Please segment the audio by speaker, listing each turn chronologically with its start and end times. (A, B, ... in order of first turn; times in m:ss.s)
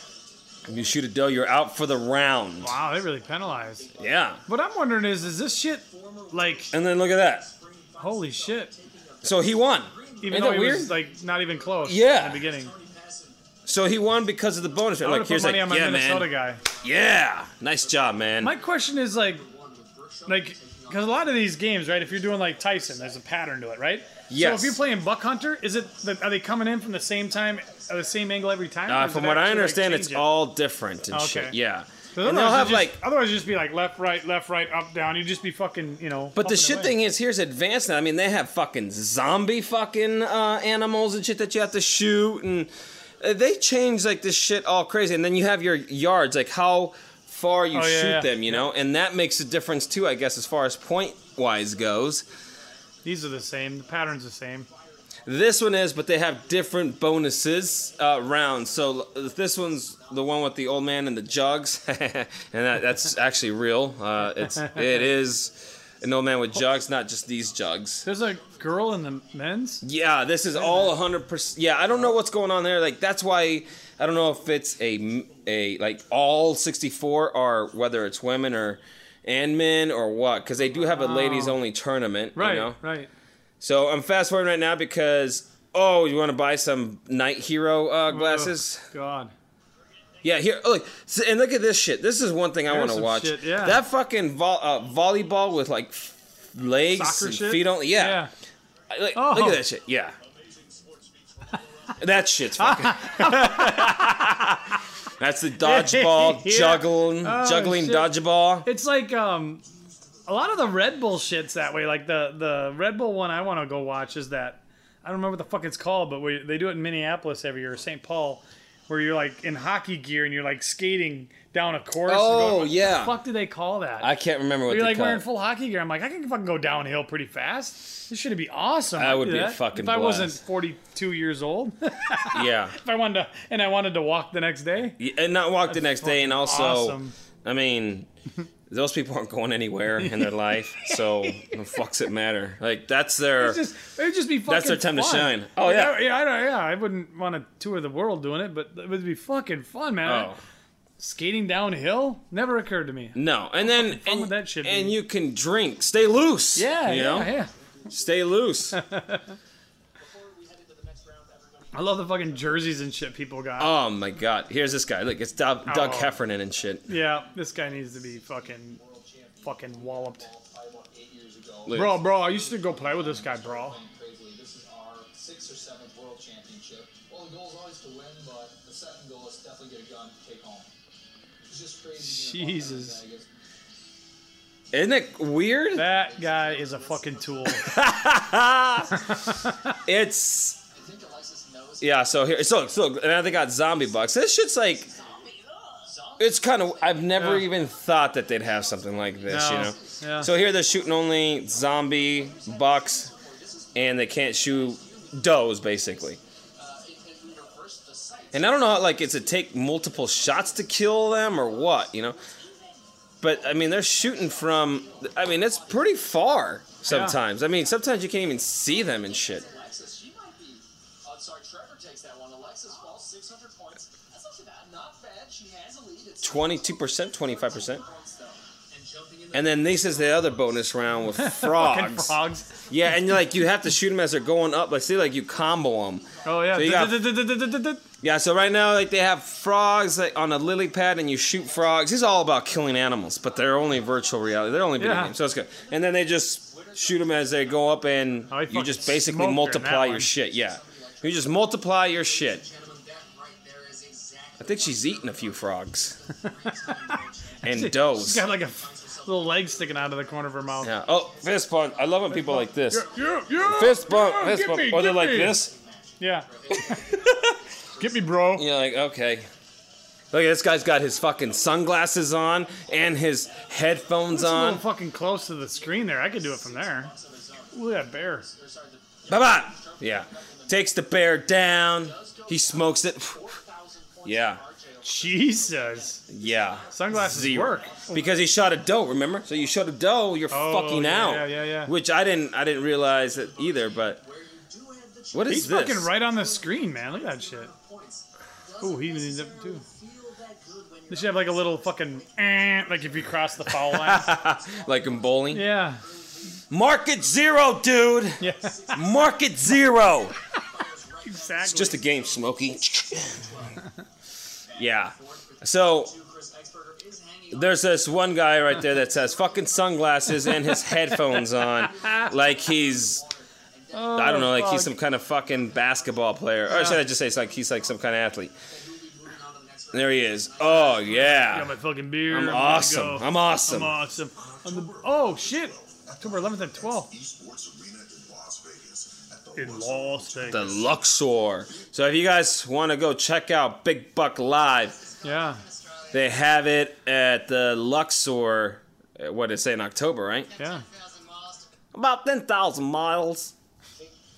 0:00.5-0:13.4 A
0:00.7-0:02.8 B
0:02.6-0:03.8 C
0:04.0-0:04.4 B
0:04.5-0:06.7 C
0:06.7-0:07.5 B
0:08.0-0:08.7 C
0:09.2-0:11.0 B
0:10.2-0:12.7 C
0:11.8-0:12.5 B
0:13.7-0:18.6 B
0:14.6-0:24.3 A
0:15.0-0:16.6 C
0:18.4-0:19.4 C
0:20.3-0:30.3 C
0:24.3-0:24.8 B
0:24.9-0:29.1 A
0:28.9-0:33.0 B
0:31.1-0:31.6 C
0:32.1-0:37.0 C
0:36.4-0:52.3 B
0:47.7-0:48.7 C
0:50.8-1:01.0 A
0:53.0-0:54.7 C
0:55.2-1:08.1 B
1:04.7-1:05.3 A
1:06.0-1:06.8 A
1:08.0-1:09.7 A
1:08.0-1:09.8 C
1:09.8-1:22.8 B
1:10.5-1:10.9 C
1:14.7-1:15.4 A
1:20.9-1:21.6 C
1:22.4-1:23.1 C
1:23.6-1:28.8 B
1:28.1-1:29.3 C
1:30.2-1:38.3 B
1:32.7-1:33.8 C
1:36.9-1:38.3 C
1:38.9-1:40.2 B
1:39.2-1:39.6 C
1:42.0-1:48.7 B
1:42.6-1:44.2 C
1:45.6-1:49.6 C
1:50.3-2:04.1 C
1:50.3-1:51.7 A
2:02.1-2:03.2 B
2:04.0-2:05.3 B
2:04.7-2:15.0 C
2:09.0-2:10.4 B
2:12.3-2:12.8 B
2:15.0-2:18.1 B
2:15.9-2:17.2 C
2:18.7-2:23.7 B
2:20.0-2:21.6 C
2:23.4-2:30.3 C
2:24.5-2:26.0 B
2:30.0-2:30.4 B
2:31.0-2:35.0 C
2:33.2-2:37.4 B
2:36.6-2:37.5 C
2:37.0-2:38.4 A
2:37.9-2:38.8 B
2:38.7-2:39.4 C
2:40.0-2:43.0 A
2:41.7-2:43.7 C
2:43.6-2:46.9 B
2:45.7-2:46.2 C
2:46.9-2:48.8 C
2:47.3-3:00.7 A
2:49.4-2:50.3 C
2:51.7-2:52.0 B
2:51.7-2:53.8 C
3:01.4-3:03.3 A
3:02.0-3:03.0 C
3:04.7-3:05.9 B
3:05.7-3:07.6 C
3:05.8-3:07.9 A
3:07.6-3:09.2 B
3:09.0-3:09.7 C
3:09.9-3:10.6 B
3:10.7-3:13.9 A
3:11.8-3:14.9 B
3:14.7-3:15.3 A
3:15.2-3:15.9 D
3:15.8-3:17.7 A
3:16.2-3:23.1 B
3:17.2-3:17.5 C
3:18.3-3:37.8 A
3:19.3-3:20.3 C
3:23.8-3:26.2 B
3:28.3-3:32.2 B
3:33.2-3:39.5 B
3:36.8-3:37.2 C
3:38.5-3:51.8 A
3:46.2-3:47.8 B
3:49.3-3:57.2 B
3:51.2-3:52.5 C
3:52.5-3:53.0 A
3:56.0-3:57.0 A
3:56.2-3:57.8 C
3:58.0-4:12.4 B
4:01.4-4:02.0 A
4:03.2-4:05.0 A
4:04.8-4:05.2 C
4:05.5-4:09.1 A
4:08.3-4:10.1 C
4:10.1-4:28.3 A
4:13.3-4:13.8 D
4:14.4-4:16.0 B
4:16.5-4:20.7 C
4:17.4-4:18.3 B
4:20.6-4:25.5 B
4:22.1-4:25.4 C
4:26.0-4:26.8 C
4:26.6-4:27.4 B
4:27.8-4:28.5 C
4:28.3-4:29.3 B
4:30.1-4:34.6 B
4:31.0-4:31.8 A
4:32.5-4:40.8 A
4:34.1-4:36.9 C
4:37.5-4:38.3 C
4:39.1-4:43.2 B
4:41.6-4:49.6 A
4:44.0-4:44.4 B
4:44.8-4:46.0 C
4:46.1-4:54.0 B
4:46.7-4:48.0 C
4:50.3-4:51.7 C
4:52.3-5:06.4 A
4:55.1-4:56.0 B
4:55.2-4:57.5 C
4:58.6-4:59.6 C
5:00.9-5:04.2 C
5:03.5-5:05.6 B
5:05.3-5:05.8 C
5:06.5-5:10.1 B
5:08.2-5:08.6 C
5:08.2-5:13.6 A
5:11.0-5:11.8 C
5:11.4-5:13.4 B
5:14.5-5:26.0 A
5:14.6-5:15.9 B
5:17.3-5:23.0 B
5:23.7-5:24.7 C
5:23.9-5:28.3 B
5:26.5-5:26.8 C
5:28.5-5:31.6 A
5:29.7-5:33.8 B
5:30.8-5:36.9 C
5:32.4-5:32.9 A
5:33.5-5:40.8 E
5:39.4-5:40.6 C
5:40.3-5:44.8 B
5:41.4-5:41.7 E
5:44.2-5:46.3 D
5:45.0-5:45.4 C
5:45.9-5:50.3 B
5:50.3-5:51.5 D
5:50.4-5:50.6 C
5:51.7-5:53.3 B